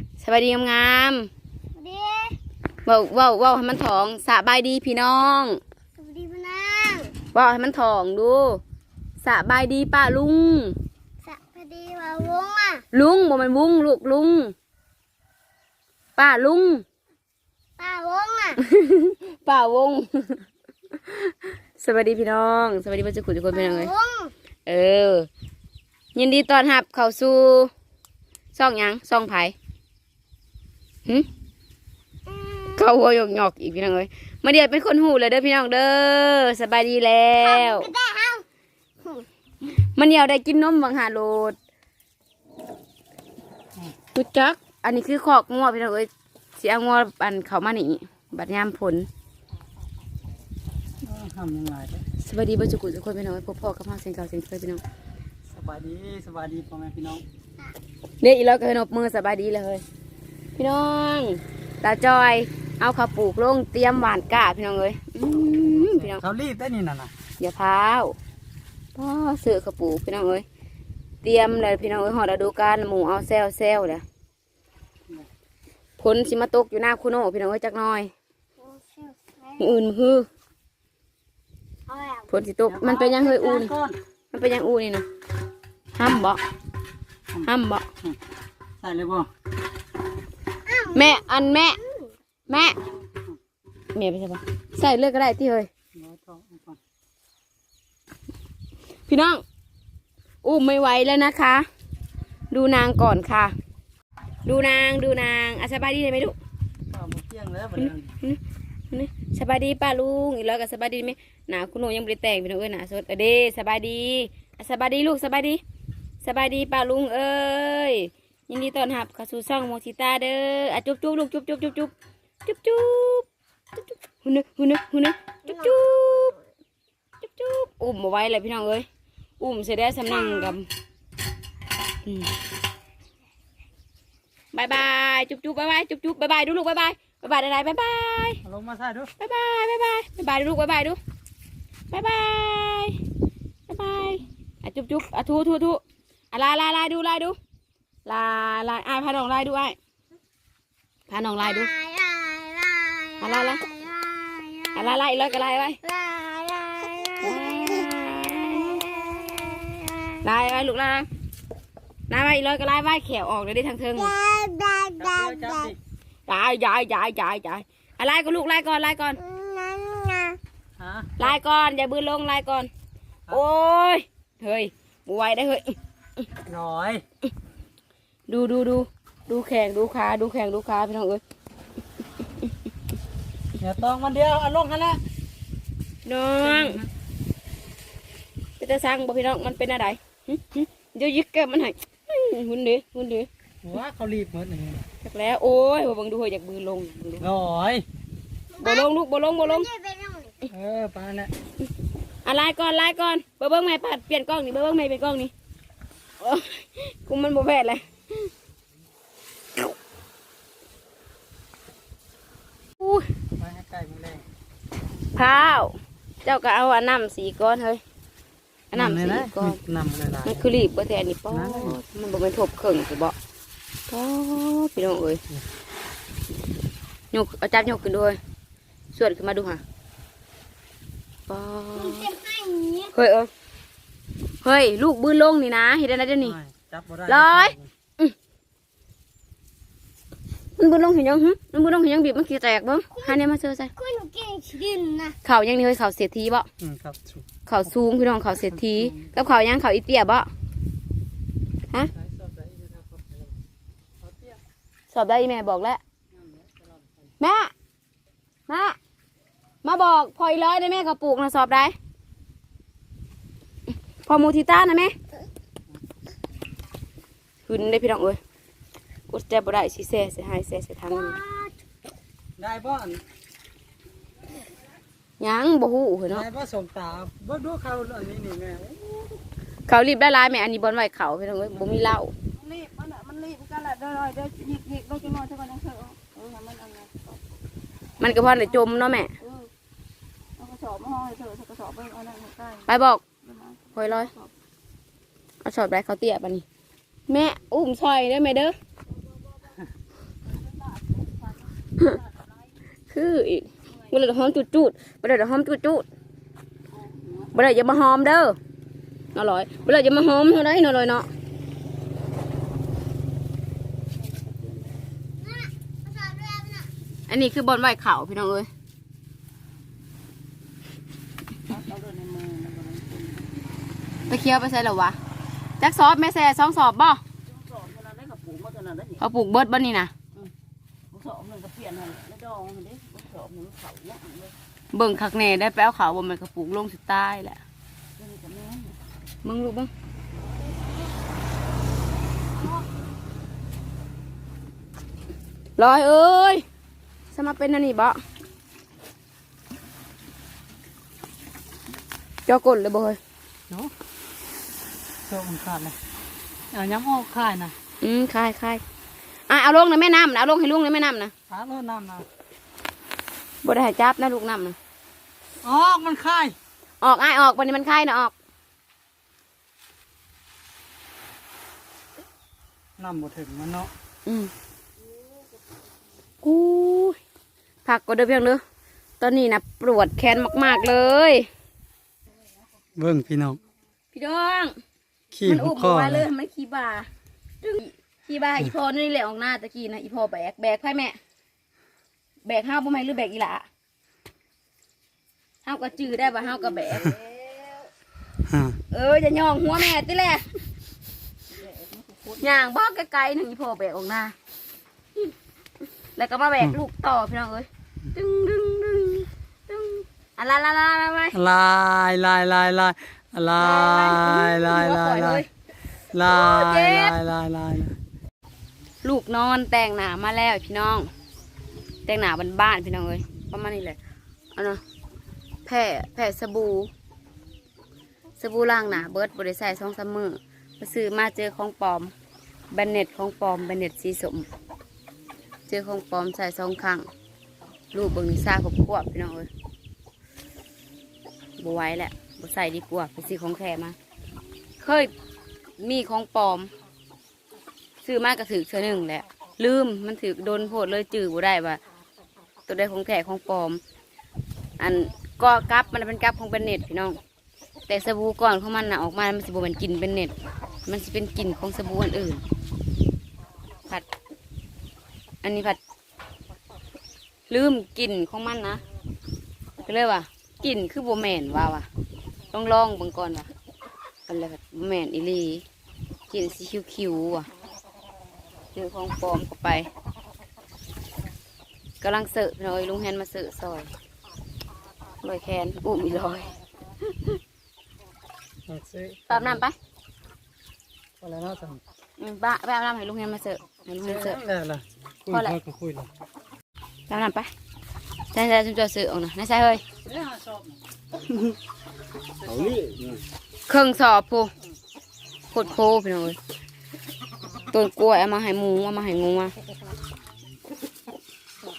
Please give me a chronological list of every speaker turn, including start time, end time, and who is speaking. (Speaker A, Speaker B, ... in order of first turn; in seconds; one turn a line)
Speaker A: 0.2-1.3
Speaker B: 1.8-2.4
Speaker A: 2.8-5.6
Speaker B: 6.0-7.1
Speaker A: 7.3-8.6
Speaker A: 9.2-10.8
Speaker B: 11.2-12.8
Speaker A: 12.9-14.5
Speaker A: 16.2-16.8
Speaker B: 17.8-18.6
Speaker A: 18.6-23.9
Speaker B: 23.6-24.3
Speaker A: 24.6-25.3
Speaker A: 26.1-27.7
Speaker A: 28.5-29.5
Speaker A: 32.7-37.9
Speaker B: 37.5-38.4
Speaker A: 39.7-41.5
Speaker A: 44.1-49.1
Speaker C: 51.0-52.0
Speaker A: 52.2-54.8
Speaker C: 55.5-57.2
Speaker A: 58.2-59.8
Speaker A: 60.5-66.2
Speaker C: 65.8-67.1
Speaker A: 67.4-68.2
Speaker A: 68.9-70.4
Speaker A: 71.2-74.0
Speaker A: 76.0-78.1
Speaker B: 78.6-79.7
Speaker A: 79.6-80.3
Speaker B: 81.9-82.2
Speaker A: 82.3-83.7
Speaker C: 82.7-84.0
Speaker A: 84.3-85.0
Speaker A: 86.0-86.4
Speaker A: 87.4-87.8
Speaker C: 88.8-89.3
Speaker B: 90.7-91.1
Speaker A: 90.9-91.8
Speaker A: 92.5-92.8
Speaker A: 93.9-95.7
Speaker C: 95.9-96.8
Speaker A: 99.1-99.4
Speaker A: 100.4-101.7
Speaker A: 102.5-103.5
Speaker A: 104.4-106.3
Speaker C: 106.9-108.1
Speaker A: 107.8-108.4
Speaker A: 108.9-115.6
Speaker A: 116.2-121.9
Speaker A: 122.4-126.4
Speaker A: 127.2-128.8
Speaker A: 129.4-130.7
Speaker A: 132.0-132.3
Speaker A: 134.5-138.4
Speaker C: 138.4-139.1
Speaker A: 139.2-141.0
Speaker A: 141.9-142.9
Speaker A: 143.7-147.3
Speaker A: 148.1-149.8
Speaker A: 151.1-151.7
Speaker B: 151.7-154.7
Speaker A: 153.2-153.6
Speaker A: 154.7-155.8
Speaker B: 155.8-157.9
Speaker A: 157.2-159.3
Speaker B: 158.8-160.1
Speaker A: 160.2-161.1
Speaker A: 162.1-164.1
Speaker B: 164.1-165.7
Speaker C: 164.9-165.8
Speaker A: 166.3-169.2
Speaker B: 169.2-170.4
Speaker C: 170.8-171.3
Speaker A: 171.2-172.7
Speaker A: 173.3-175.8
Speaker C: 176.4-177.0
Speaker A: 178.3-181.2
Speaker C: 183.6-185.0
Speaker A: 186.0-186.8
Speaker C: 186.4-186.9
Speaker A: 188.6-193.3
Speaker C: 193.6-194.8
Speaker A: 195.0-197.2
Speaker C: 197.2-197.8
Speaker B: 198.5-198.9
Speaker A: 198.6-199.7
Speaker B: 199.5-200.5
Speaker C: 200.5-201.3
Speaker A: 202.2-205.3
Speaker A: 206.2-208.3
Speaker C: 213.4-214.2
Speaker A: 215.1-217.8
Speaker A: 218.7-219.6
Speaker C: 218.7-220.5
Speaker A: 220.2-223.1
Speaker C: 221.3-221.8
Speaker A: 223.9-225.2
Speaker A: 227.1-228.2
Speaker A: 228.9-229.6
Speaker A: 231.3-232.2
Speaker B: 231.8-232.9
Speaker A: 232.9-233.3
Speaker A: 234.4-236.4
Speaker C: 236.2-237.7
Speaker A: 237.1-238.1
Speaker A: 240.6-243.7
Speaker B: 243.8-245.2
Speaker A: 245.2-246.5
Speaker C: 246.6-247.2
Speaker A: 247.4-250.3
Speaker C: 248.6-249.1
Speaker C: 251.9-253.3
Speaker C: 254.0-254.4
Speaker A: 254.9-255.8
Speaker C: 256.1-257.1
Speaker A: 257.2-257.5
Speaker A: 258.5-258.8
Speaker A: 259.6-261.8
Speaker A: 264.0-264.9
Speaker A: 267.4-268.2
Speaker A: 269.1-271.2
Speaker C: 272.4-273.0
Speaker A: 275.2-276.2
Speaker C: 276.1-279.2
Speaker A: 279.7-282.1
Speaker D: 282.4-287.1
Speaker A: 288.0-289.1
Speaker D: 289.2-289.5
Speaker D: 290.4-292.7
Speaker A: 292.6-293.0
Speaker D: 293.2-294.3
Speaker A: 293.7-294.1
Speaker A: 295.4-296.4
Speaker A: 297.1-298.5
Speaker D: 300.3-302.1
Speaker A: 302.9-305.9
Speaker D: 306.8-307.3
Speaker A: 307.3-308.4
Speaker A: 309.1-311.1
Speaker D: 314.0-314.8
Speaker B: 315.4-316.7
Speaker A: 317.1-318.5
Speaker D: 321.5-323.4
Speaker A: 324.1-325.0
Speaker A: 325.6-327.0
Speaker D: 327.2-329.0
Speaker A: 329.0-329.9
Speaker D: 330.9-334.3
Speaker A: 334.7-337.4
Speaker D: 338.0-338.8
Speaker A: 339.2-339.7
Speaker A: 345.6-346.4
Speaker A: 347.1-348.0
Speaker A: 352.2-353.0
Speaker C: 355.1-355.8
Speaker C: 356.5-357.5
Speaker A: 357.8-358.6
Speaker A: 359.3-361.1
Speaker C: 361.3-362.1
Speaker A: 363.4-364.6
Speaker C: 365.4-366.4
Speaker A: 366.8-368.1
Speaker C: 372.8-373.7
Speaker A: 374.1-374.3
Speaker A: 376.2-377.0
Speaker A: 377.6-378.4
Speaker A: 379.0-381.3
Speaker C: 382.8-383.4
Speaker A: 383.9-384.6
Speaker C: 385.1-386.1
Speaker A: 385.2-386.9
Speaker A: 387.4-390.9
Speaker A: 392.2-393.4
Speaker A: 395.4-397.0
Speaker D: 396.7-397.7
Speaker C: 398.3-398.6
Speaker A: 398.7-400.3
Speaker D: 401.4-402.2
Speaker A: 402.2-404.1
Speaker A: 405.9-411.2
Speaker C: 411.1-415.2
Speaker A: 413.4-415.3
Speaker C: 415.9-417.8
Speaker A: 416.0-417.0
Speaker A: 418.8-420.9
Speaker A: 421.9-423.8
Speaker A: 424.3-424.6
Speaker A: 425.4-426.7
Speaker A: 428.2-431.9
Speaker A: 432.5-434.3
Speaker A: 435.5-436.9
Speaker A: 437.7-439.3
Speaker A: 441.4-443.8
Speaker A: 444.6-444.9
Speaker A: 445.6-446.5
Speaker A: 447.8-451.6
Speaker A: 452.5-453.6
Speaker A: 454.6-457.0
Speaker A: 457.7-460.1
Speaker A: 460.6-462.2
Speaker A: 465.2-465.6
Speaker A: 467.3-468.6
Speaker A: 469.6-471.7
Speaker A: 472.3-473.3
Speaker A: 474.1-475.4
Speaker A: 476.1-477.3
Speaker A: 478.5-479.7
Speaker A: 481.8-483.7
Speaker A: 485.0-486.3
Speaker C: 488.5-489.4
Speaker A: 489.1-489.5
Speaker C: 491.0-491.6
Speaker A: 492.0-494.2
Speaker C: 493.8-495.9
Speaker A: 495.1-495.4
Speaker A: 496.9-497.3
Speaker A: 498.1-499.6
Speaker C: 499.8-500.6
Speaker C: 502.1-503.0
Speaker A: 503.5-504.3
Speaker A: 505.3-506.2
Speaker A: 507.5-509.3